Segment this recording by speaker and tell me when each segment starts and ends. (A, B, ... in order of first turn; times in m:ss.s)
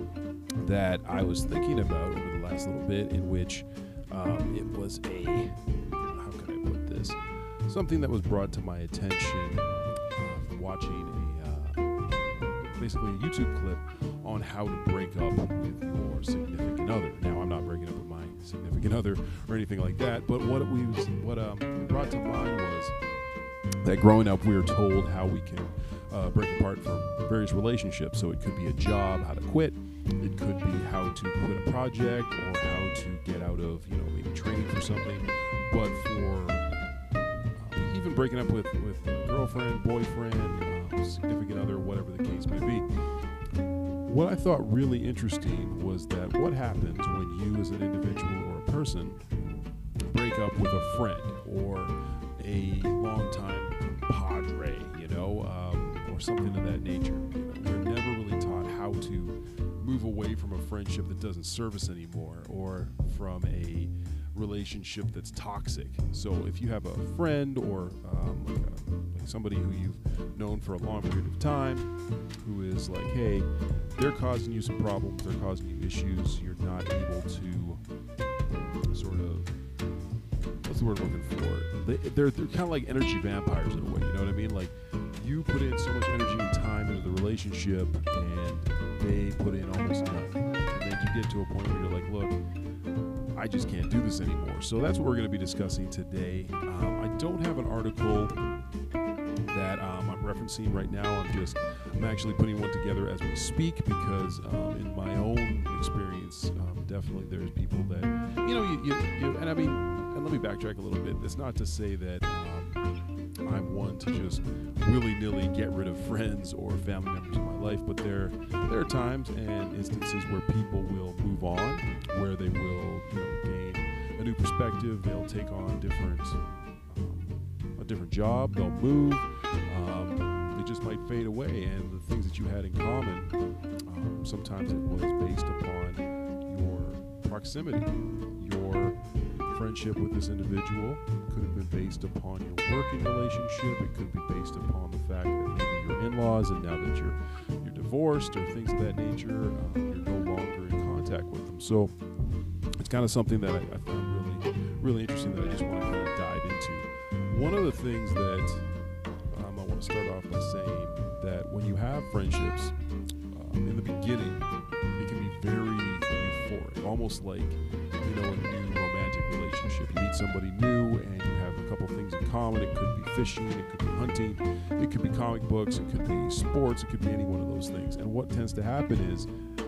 0:00.6-0:22.9 A
0:23.8-0:36.7 A
0:37.5-0:42.9 A
0:44.0-0:49.2 A
0:50.1-1:17.8 A
1:18.9-1:19.5 A
1:20.6-1:32.4 A
1:33.3-1:38.3 A
1:39.5-1:52.8 A
1:53.4-2:13.3 A
2:13.8-2:31.9 A
2:32.8-2:38.7 A
2:39.3-2:42.7 A
2:43.3-2:59.3 A